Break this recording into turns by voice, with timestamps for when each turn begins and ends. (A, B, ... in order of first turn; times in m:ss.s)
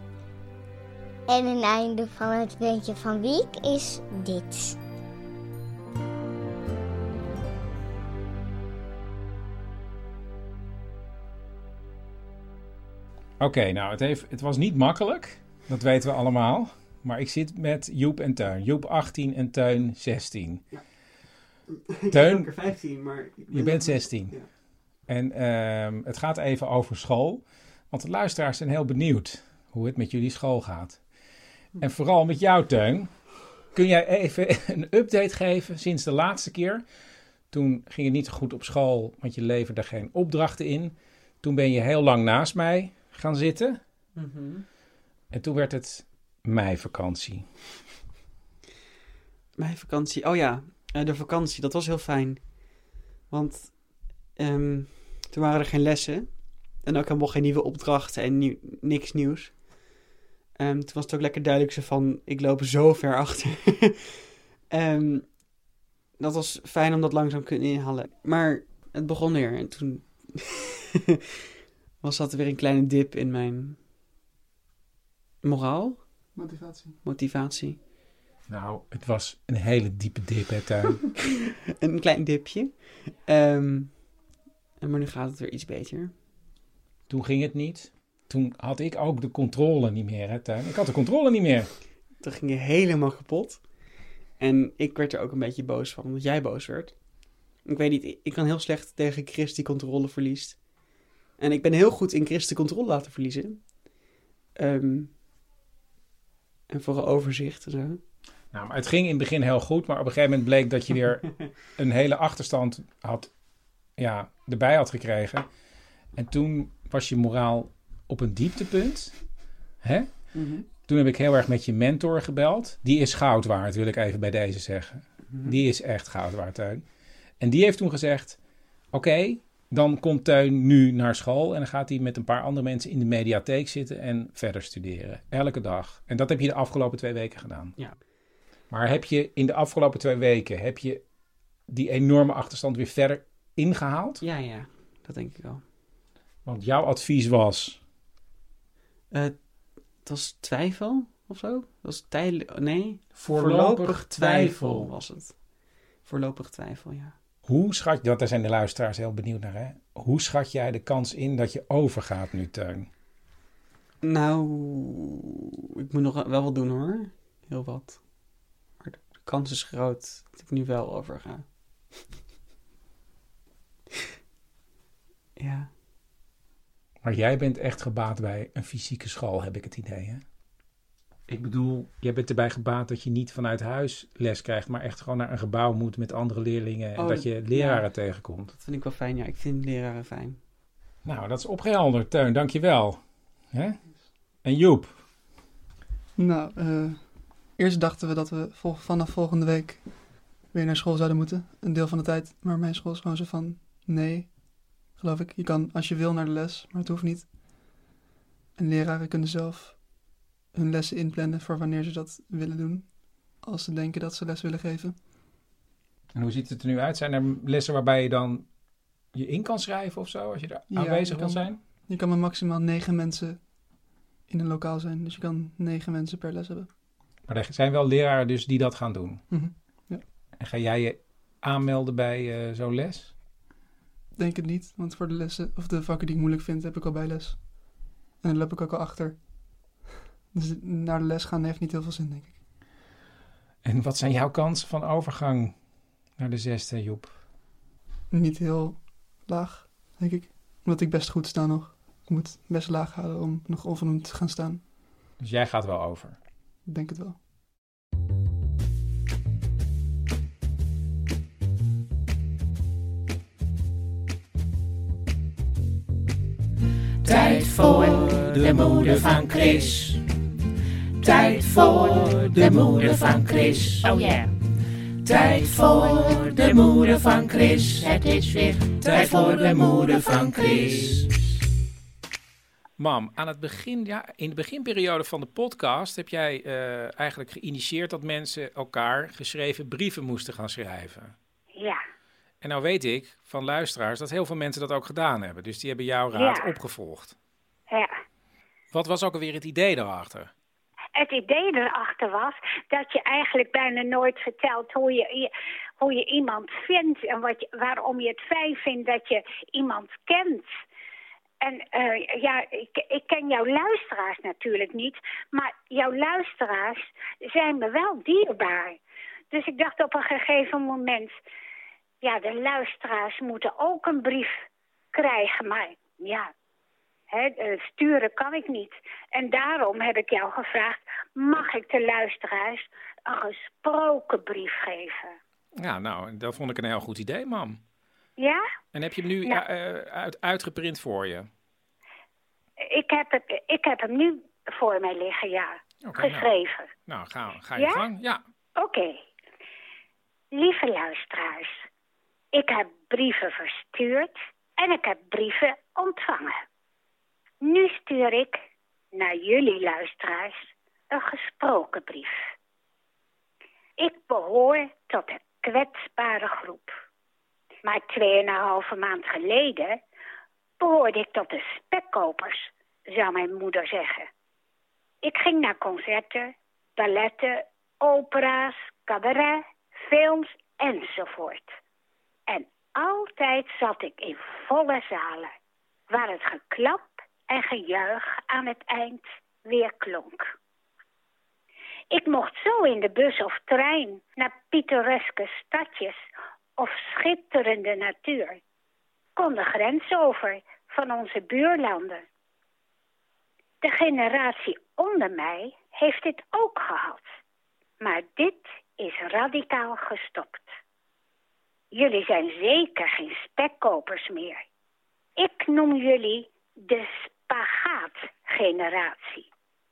0:01.3-0:04.8 A
0:13.4-0:20.7 B
0:21.7-0:24.5 C
0:22.1-0:22.5 B
0:23.5-0:24.4 B
0:25.0-0:31.0 B
0:31.8-0:33.2 B
0:33.7-0:36.8 B
0:37.5-0:43.8 B
0:44.2-0:44.6 C
0:45.3-0:47.5 B
0:49.6-1:00.0 C
1:00.6-1:04.0 C
1:04.7-1:05.7 C
1:06.2-1:10.6 C
1:12.0-1:13.8 C
1:15.4-1:16.3 C
1:16.3-1:17.0 D
1:17.0-1:17.8 C
1:18.5-1:21.0 B
1:21.8-1:26.2 C
1:27.1-1:31.7 B
1:32.2-1:45.2 C
1:46.7-1:48.0 C
1:48.5-1:53.3 B
1:54.0-1:55.5 B
1:56.2-1:59.2 B
1:59.8-2:06.8 B
2:00.3-2:00.7 C
2:05.3-2:05.6 C
2:07.4-2:08.4 B
2:08.9-2:17.8 B
2:17.8-2:18.0 C
2:18.7-2:21.0 B
2:21.7-2:24.2 B
2:24.2-2:25.6 C
2:26.4-2:27.8 B
2:29.1-2:37.2 C
2:33.1-2:34.9 B
2:37.4-2:42.9 B
2:44.0-2:51.5 C
2:55.4-2:55.7 C
2:57.0-3:00.2 B
3:01.3-3:08.5 B
3:07.0-3:07.9 C
3:08.5-3:10.4 C
3:11.0-3:15.0 B
3:16.2-3:27.4 D
3:28.6-3:35.0 D
3:36.1-3:38.5 B
3:39.1-3:41.6 B
3:40.7-3:46.7 D
3:47.3-3:49.2 B
3:49.3-3:50.0 D
3:50.4-3:53.2 B
3:54.2-4:02.4 D
4:03.6-4:05.6 B
4:06.2-4:07.2 B
4:08.1-4:14.6 D
4:15.2-4:16.2 B
4:16.7-4:17.2 D
4:27.0-4:30.0 E
4:31.0-4:34.4 E
4:35.0-4:41.1 E
4:38.9-4:39.7 B
4:42.8-4:51.2 B
4:51.6-4:51.8 F
4:52.4-4:57.2 B
4:56.2-4:56.5 F
4:58.7-5:00.3 B
5:01.0-5:10.6 F
5:11.4-5:18.8 F
5:19.3-5:21.2 F
5:22.0-5:24.4 F
5:24.9-5:26.3 F
5:27.1-5:35.2 F
5:35.6-5:37.6 B
5:38.2-5:38.4 F
5:38.7-5:41.3 B
5:42.6-5:46.7 F
5:45.8-5:46.3 B
5:46.9-5:48.2 B
5:47.6-5:47.8 F
5:48.6-5:49.0 F
5:50.4-5:51.6 F
5:52.3-5:56.4 F
5:57.4-5:58.4 F
5:59.0-6:02.2 F
6:03.8-6:06.7 F
6:07.6-6:09.8 F
6:10.6-6:14.1 F
6:15.0-6:21.6 F
6:22.3-6:25.3 F
6:25.9-6:30.3 F
6:31.9-6:36.0 F
6:36.6-6:38.4 F
6:39.2-6:42.0 F
6:43.6-6:47.1 F
6:47.8-6:50.5 F
6:51.7-6:54.4 F
6:55.2-6:59.3 F